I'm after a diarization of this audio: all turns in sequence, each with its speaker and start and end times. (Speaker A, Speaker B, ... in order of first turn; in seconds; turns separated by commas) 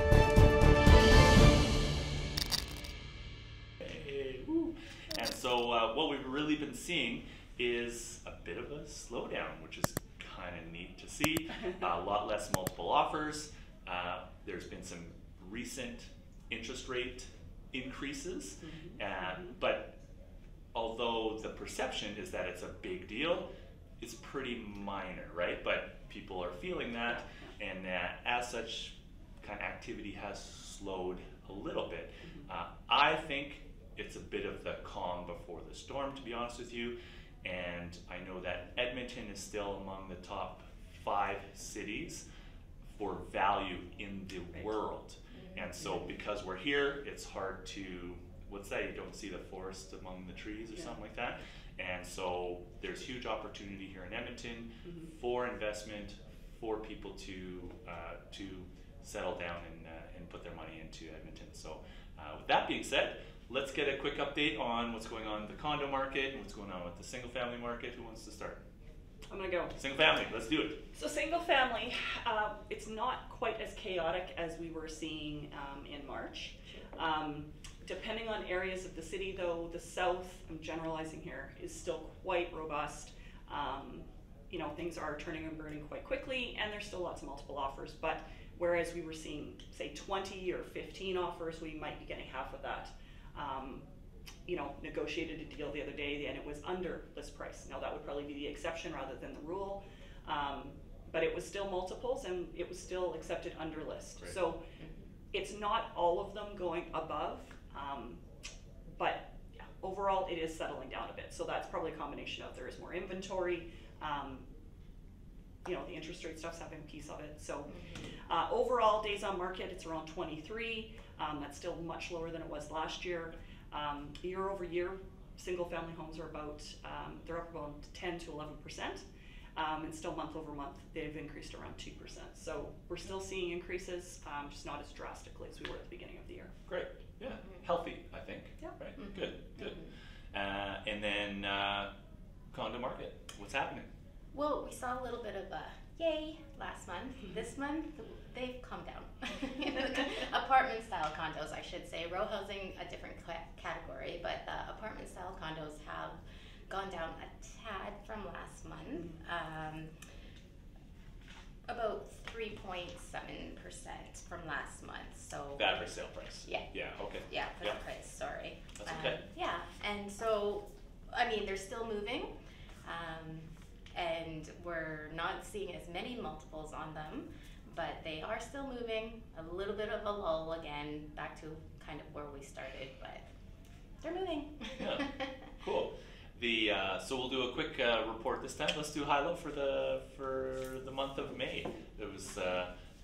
Speaker A: 3.8-20.0, Speaker B: 18.6-19.5, Speaker A: 20.7-23.5, Speaker A: 24.0-42.2, Speaker B: 27.1-27.5, Speaker A: 42.9-68.6, Speaker B: 44.5-44.9, Speaker C: 45.3-45.7, Speaker B: 69.3-69.8, Speaker A: 69.8-70.8, Speaker B: 70.9-93.8, Speaker B: 94.5-104.6, Speaker C: 104.8-105.0, Speaker B: 105.3-108.2, Speaker B: 108.9-114.5, Speaker B: 115.7-117.7, Speaker C: 117.7-118.1, Speaker B: 118.3-129.0, Speaker B: 129.6-136.5, Speaker A: 136.7-139.8, Speaker C: 139.0-139.9, Speaker A: 140.3-141.9, Speaker A: 142.5-143.9, Speaker C: 144.3-159.9, Speaker C: 161.7-165.8, Speaker A: 165.6-167.8, Speaker C: 166.4-172.3, Speaker A: 168.8-169.2, Speaker C: 172.8-183.2, Speaker C: 184.0-185.3, Speaker A: 184.8-192.7